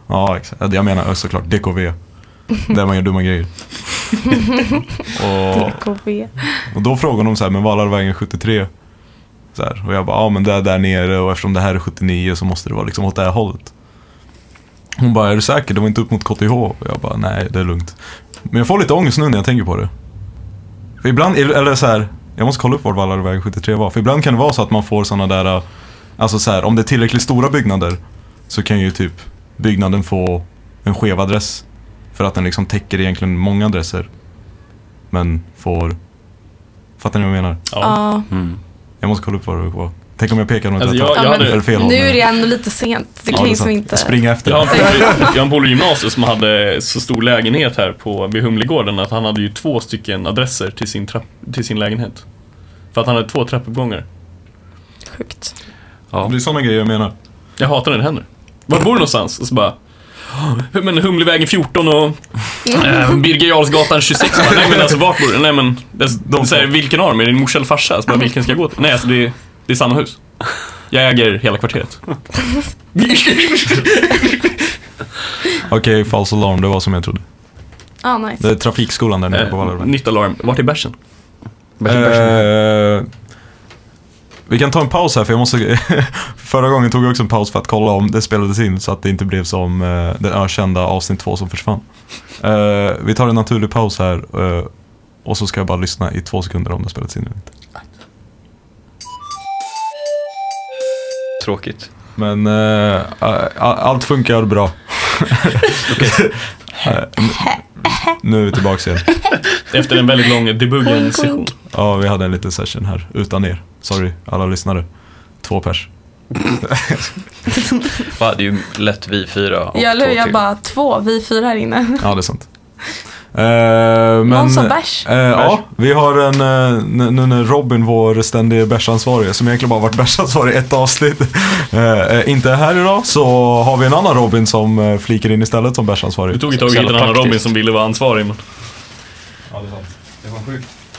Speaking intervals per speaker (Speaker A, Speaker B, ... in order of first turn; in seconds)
Speaker A: 0.1-2.0, 2.5-4.3, 5.0-5.9, 6.6-8.7, 9.5-13.7, 15.0-19.9, 21.0-25.6, 26.2-34.1, 35.1-36.0, 37.0-37.6, 39.0-42.2, 43.3-45.2, 56.2-57.1, 66.2-66.7, 75.7-77.2, 78.4-79.9, 81.9-83.1, 84.5-91.9, 92.4-94.7, 95.2-97.5, 102.2-109.2, 111.7-114.9, 115.4-115.9, 116.6-117.1, 122.0-122.5, 123.3-136.4, 139.5-139.9
Speaker B: 5.5-6.6, 37.8-38.3, 41.1-45.4, 55.1-55.5, 78.0-78.5, 110.9-111.5, 119.7-122.1, 124.3-125.1
Speaker C: 37.7-38.0, 40.8-41.7, 44.4-52.2, 52.9-54.0, 57.6-70.2, 70.9-72.0, 72.9-74.6, 79.3-80.9, 109.7-111.5, 136.3-138.4
Speaker D: 38.3-38.6, 81.8-82.4, 101.4-101.9, 105.9-106.2, 118.1-120.4, 136.5-137.4, 140.2-140.7